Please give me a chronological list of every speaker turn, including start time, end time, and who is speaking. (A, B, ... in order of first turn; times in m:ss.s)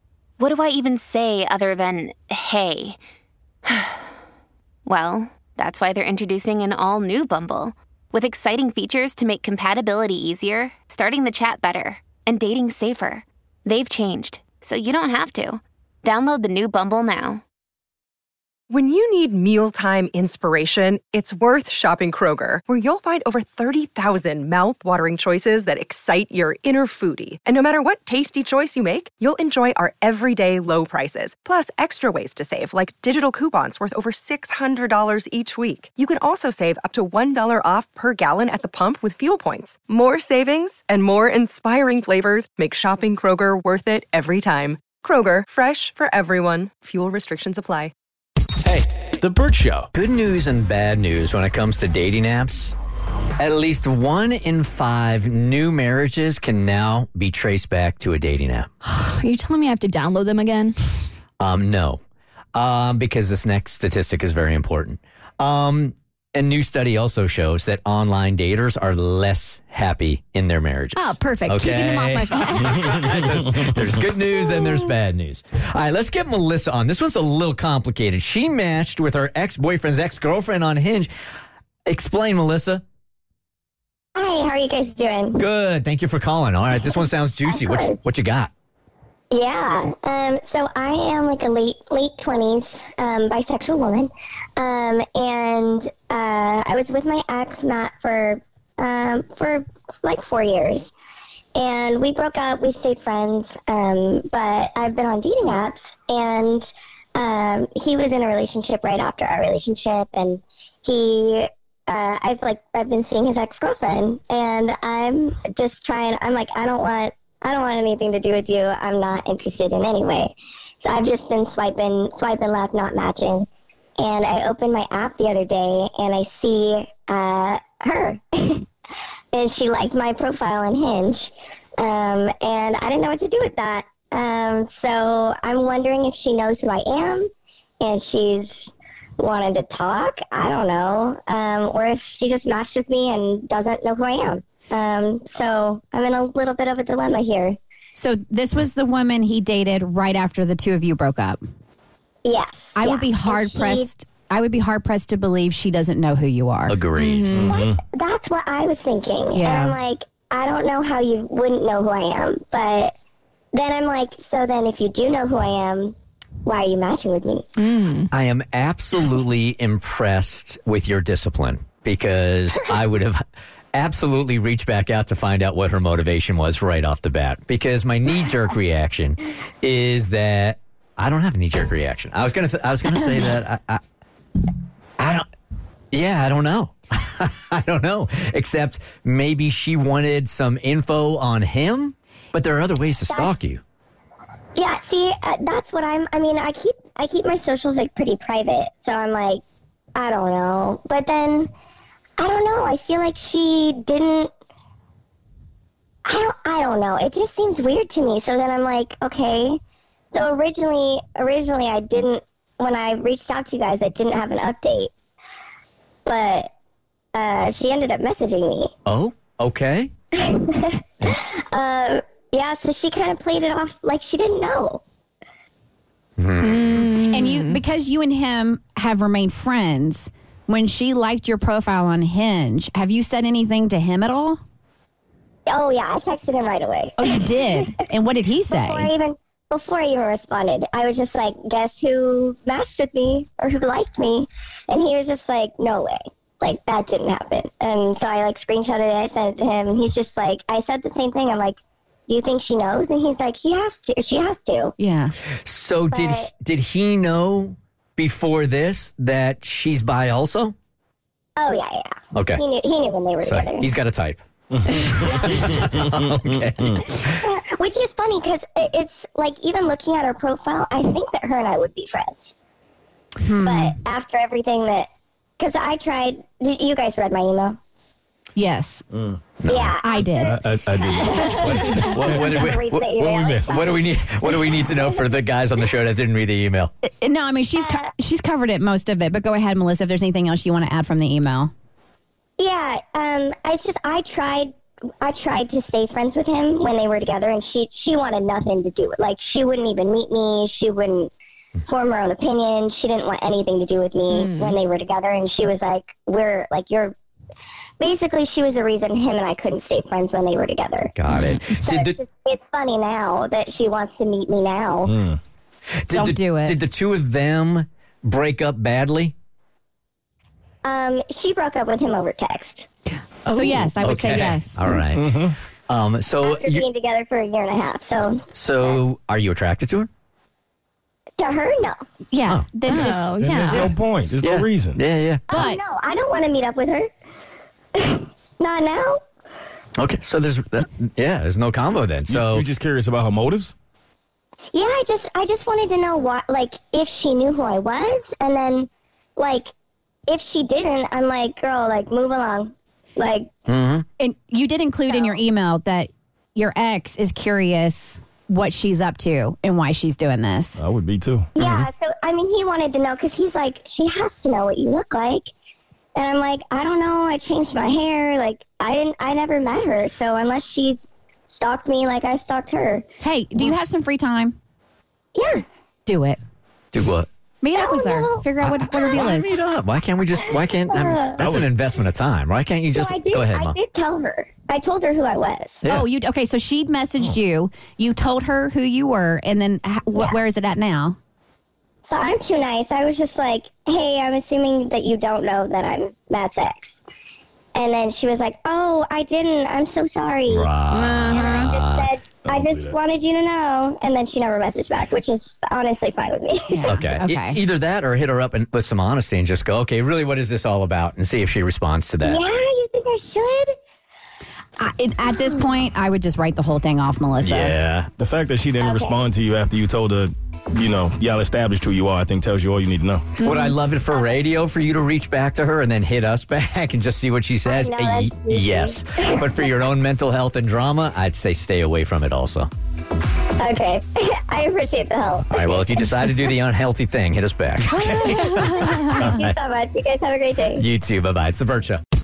0:00.4-0:03.0 A
0:03.7-0:04.0 A
0:04.8-0:17.4 A
0:18.7-0:47.9 B
0:48.7-0:49.9 C
0:49.9-0:52.8 D
0:53.4-0:58.7 D
0:58.8-1:01.1 E
1:01.4-1:02.0 D
1:02.6-1:21.1 D
1:11.0-1:13.2 E
1:21.9-1:22.8 D
1:24.2-1:25.4 F
1:25.4-1:28.5 D
1:27.5-1:28.0 F
1:29.3-1:40.9 F
1:41.6-2:03.5 F
2:04.0-2:08.7 F
2:09.3-2:17.3 F
2:17.8-2:18.5 F
2:19.2-2:27.6 F
2:27.9-2:31.4 G
2:32.2-2:33.9 F
2:32.8-2:36.8 G
2:36.7-2:37.5 D
2:37.3-2:37.8 C
2:37.5-2:42.9 F
2:39.3-2:39.8 G
2:43.5-2:47.5 F
2:47.6-2:48.1 E
2:48.1-2:53.2 D
2:53.7-3:03.8 D
3:05.0-3:05.2 D
3:05.9-3:13.6 D
3:14.6-3:19.4 F
3:20.0-3:21.5 F
3:22.2-3:24.3 F
3:26.1-3:29.6 F
3:30.1-3:34.9 F
3:36.1-3:36.5 F
3:37.2-3:38.7 F
3:38.9-3:39.9 D
3:40.2-3:44.8 F
3:46.2-3:47.1 D
3:46.5-3:46.9 E
3:47.0-3:54.4 G
3:55.5-3:57.6 F
3:57.0-3:58.9 G
3:58.5-4:11.6 F
4:12.1-4:14.8 F
4:14.8-4:15.1 G
4:15.4-4:20.5 D
4:15.9-4:16.3 F
4:21.4-4:23.7 F
4:22.1-4:22.4 D
4:23.2-4:27.1 D
4:24.5-4:24.9 C
4:25.0-4:25.5 F
4:27.0-4:32.3 F
4:33.2-4:33.8 G
4:33.4-4:34.9 F
4:35.4-4:37.6 F
4:38.4-4:38.8 G
4:38.9-4:39.2 C
4:39.4-4:39.7 D
4:39.5-4:40.4 F
4:39.8-4:40.4 G
4:40.2-4:42.4 C
4:40.9-4:43.8 F
4:41.3-4:46.7 D
4:43.0-4:43.6 C
4:46.8-4:51.5 G
4:47.6-4:47.9 F
4:52.4-5:01.1 F
5:01.7-5:06.9 F
5:07.8-5:11.0 F
5:11.0-5:12.0 D
5:11.6-5:15.0 F
5:14.9-5:15.2 C
5:15.8-5:19.1 D
5:15.9-5:16.6 G
5:20.6-5:22.6 F
5:23.3-5:24.6 G
5:23.3-5:23.7 E
5:23.8-5:25.1 D
5:24.9-5:25.4 C
5:25.7-5:26.6 D
5:26.2-5:28.8 F
5:28.3-5:29.9 D
5:31.2-5:31.8 F
5:32.1-5:33.6 G
5:32.7-5:33.6 E
5:33.2-5:34.8 C
5:34.2-5:35.3 D
5:35.3-5:36.9 F
5:35.3-5:35.6 G
5:37.8-5:39.0 F
5:39.8-5:42.5 D
5:42.1-5:43.6 C
5:44.5-5:49.5 F
5:50.1-5:53.3 F
5:53.5-5:53.8 D
5:54.0-6:00.6 G
5:54.9-5:55.2 F
6:00.6-6:01.3 C
6:01.4-6:05.3 F
6:01.4-6:01.7 D
6:06.0-6:10.8 F
6:11.4-6:12.8 F
6:13.0-6:14.4 G
6:15.2-6:15.4 F
6:15.9-6:16.2 G
6:16.7-6:17.1 D
6:17.4-6:19.3 G
6:17.5-6:19.2 F
6:18.4-6:23.6 D
6:20.7-6:21.2 F
6:21.2-6:21.5 C
6:22.7-6:25.6 F
6:25.7-6:31.0 G
6:29.9-6:30.2 F
6:31.9-6:36.7 F
6:37.6-6:40.5 F
6:40.3-6:41.9 D
6:40.8-6:41.4 E
6:41.1-6:46.8 F
6:42.2-6:42.8 C
6:46.5-6:47.4 G
6:46.7-6:52.2 D
6:52.0-6:53.6 F
6:54.6-6:57.6 G
6:57.2-6:57.9 D
6:58.0-7:03.2 C
6:58.6-6:59.0 F
7:03.2-7:12.5 D
7:07.5-7:09.4 F
7:13.4-7:15.7 F
7:15.3-7:19.4 D
7:17.8-7:20.6 F
7:20.6-7:21.8 D